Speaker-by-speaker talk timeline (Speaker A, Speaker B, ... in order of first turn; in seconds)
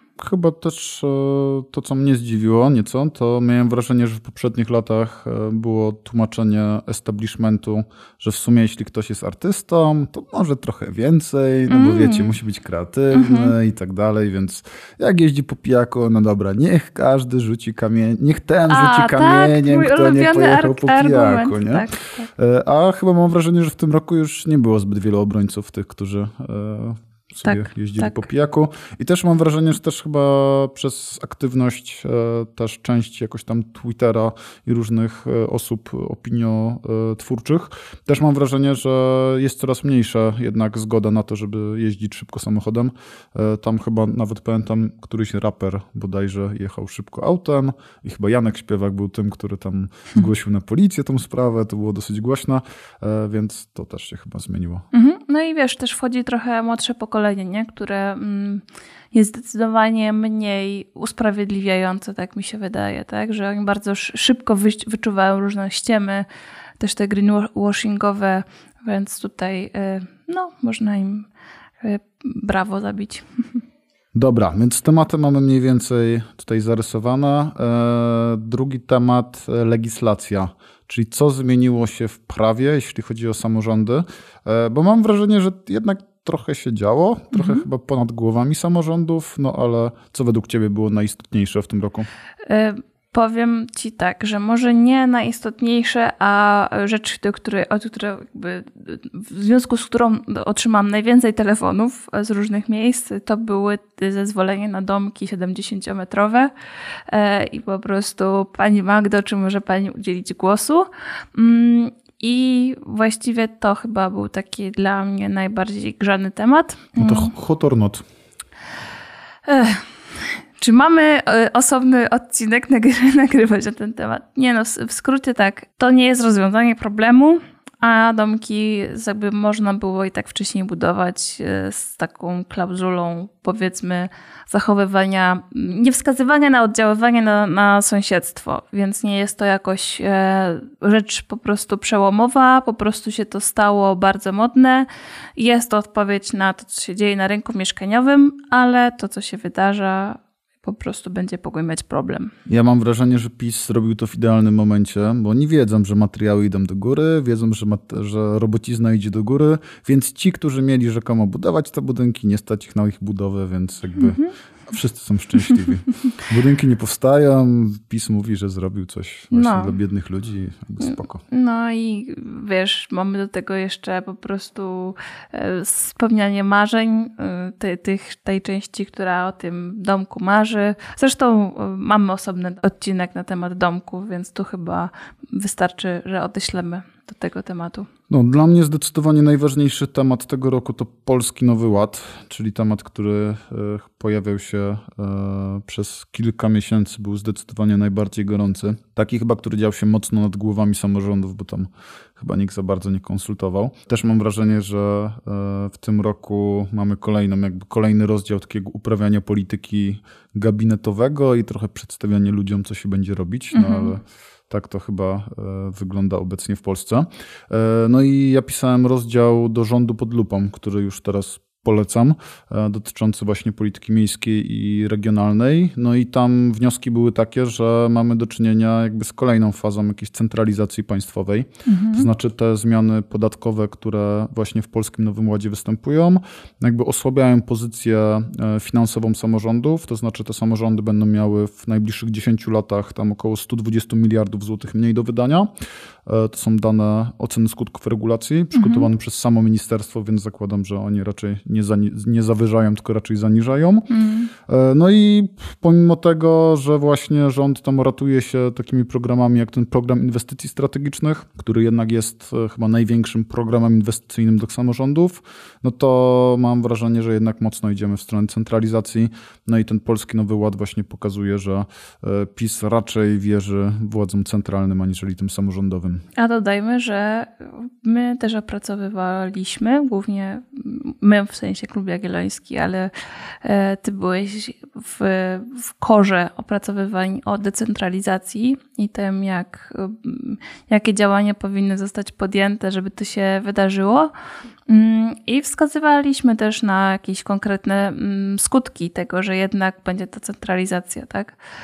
Speaker A: 0.2-54.9, 74.2-92.1, 117.0-118.0, 152.5-171.2, 188.1-245.5, 246.1-253.9, 254.5-276.1
Speaker B: 11.7-12.3, 13.1-13.5, 18.7-22.3, 27.5-28.2, 54.9-66.3, 66.8-71.3, 71.8-73.6, 87.3-87.7, 92.5-106.5, 107.1-117.3, 119.5-152.3, 164.0-164.3, 169.3-169.8, 170.8-187.9, 213.5-213.9, 231.7-232.1, 248.6-248.8, 253.9-254.3, 276.2-282.9, 283.4-294.1, 294.7-301.4